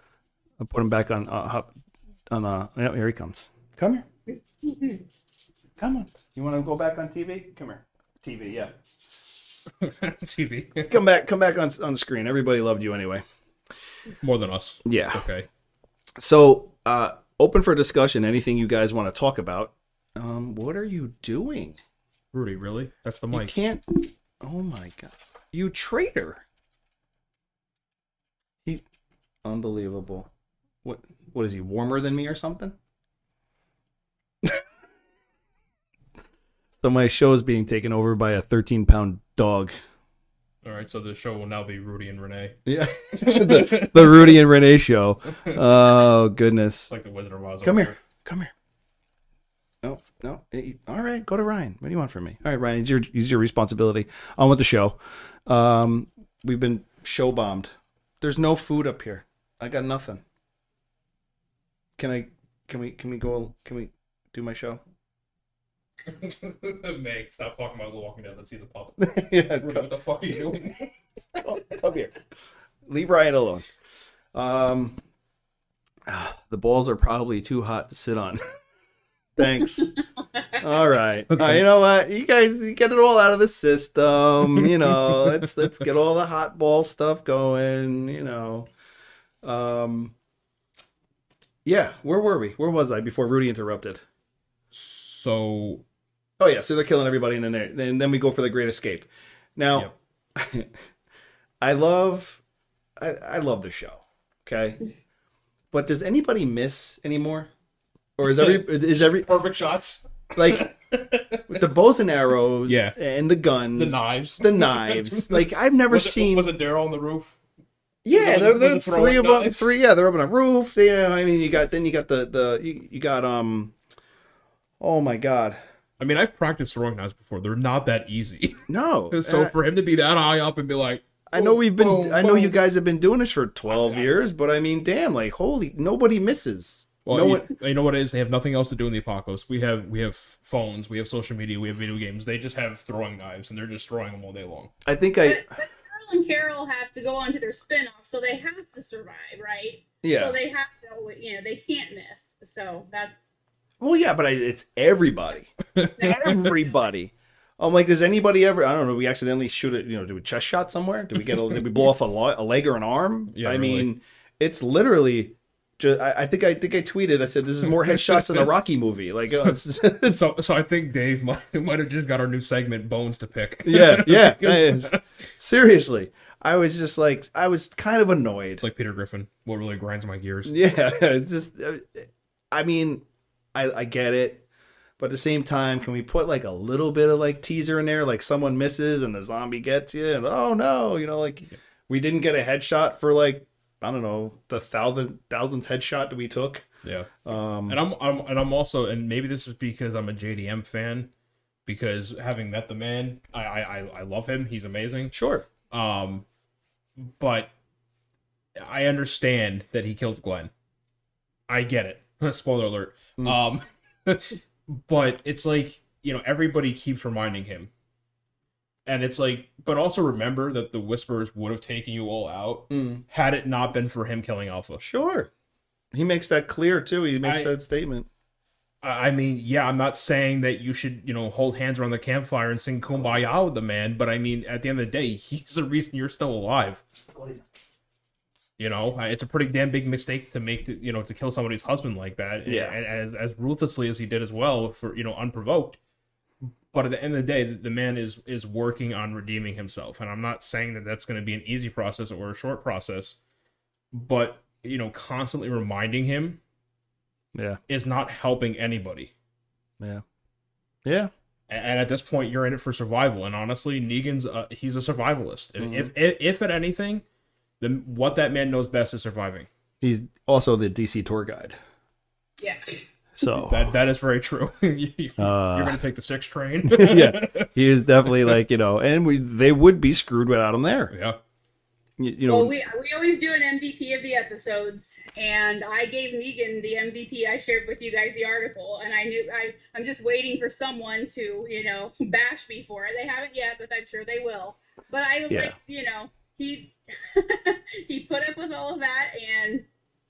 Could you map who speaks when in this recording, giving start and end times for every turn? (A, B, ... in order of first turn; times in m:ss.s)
0:00.6-0:01.7 A
0:02.3-0:04.0 A
0:04.6-0:05.0 B
0:05.8-0:08.7 A
0:09.8-0:11.0 C
0:10.9-0:13.2 A
0:14.2-0:15.5 C
0:14.8-0:15.3 A
0:16.2-0:21.8 A
0:22.3-0:23.5 C
0:23.3-0:26.4 A
0:29.4-0:30.3 A
0:30.8-0:32.8 A
0:36.8-0:39.7 A
0:40.6-0:44.4 C
0:42.7-0:46.9 A
0:46.9-0:48.0 C
0:47.6-0:48.5 A
0:49.8-1:00.2 A
1:02.0-1:04.8 A
1:06.1-1:11.6 C
1:09.0-1:09.9 A
1:11.4-1:12.1 A
1:12.9-1:13.7 A
1:14.3-1:15.0 A
1:16.1-1:18.4 A
1:19.4-1:20.0 A
1:20.5-1:28.7 A
1:21.3-1:21.6 C
1:24.6-1:25.5 C
1:29.4-1:30.1 A
1:31.6-1:34.0 A
1:34.7-1:35.8 C
1:36.4-1:40.7 A
1:41.6-1:42.4 A
1:43.0-1:44.8 A
1:45.7-1:47.5 A
1:48.2-1:49.3 A
1:48.2-1:51.6 C
1:50.4-1:50.7 A
1:51.5-1:56.5 A
1:52.7-1:53.0 C
1:53.8-1:57.4 C
1:58.0-2:03.7 A
1:58.1-1:59.7 C
2:04.8-2:05.6 A
2:06.0-2:12.5 C
2:08.7-2:09.5 A
2:11.3-2:17.5 A
2:13.7-2:14.1 C
2:17.0-2:24.7 C
2:24.9-2:25.4 A
2:25.2-2:33.3 B
2:30.0-2:30.4 A
2:33.8-2:50.2 A
2:35.8-2:36.6 C
2:43.3-2:43.9 C
2:47.8-2:48.5 C
2:49.3-2:55.0 C
2:53.6-2:58.6 A
2:58.6-3:00.6 C
3:00.5-3:04.4 A
3:05.0-3:16.7 A
3:16.8-3:17.1 C
3:17.2-3:17.8 A
3:17.7-3:21.1 C
3:21.7-3:25.1 C
3:25.1-3:25.5 A
3:25.7-3:26.2 C
3:27.0-3:27.5 C
3:28.6-3:30.5 C
3:31.5-3:37.7 C
3:38.9-3:44.8 C
3:42.7-3:43.0 A
3:44.8-3:45.3 A
3:45.9-3:48.1 A
3:47.2-3:47.5 C
3:48.8-3:56.8 C
3:57.1-3:57.4 A
3:58.6-4:05.8 C
4:02.5-4:02.8 A
4:06.7-4:13.2 C
4:13.9-4:16.4 C
4:17.7-4:19.1 C
4:20.8-4:21.1 A
4:21.5-4:27.0 C
4:25.6-4:25.9 A
4:27.6-4:29.5 C
4:29.8-4:31.6 A
4:32.4-4:32.8 B
4:33.2-4:33.6 A
4:33.4-4:37.5 C
4:35.2-4:35.8 A
4:36.7-4:40.9 A
4:38.1-4:38.3 C
4:40.9-4:41.2 C
4:42.0-4:42.5 A
4:42.3-4:59.6 B
4:55.3-4:55.6 A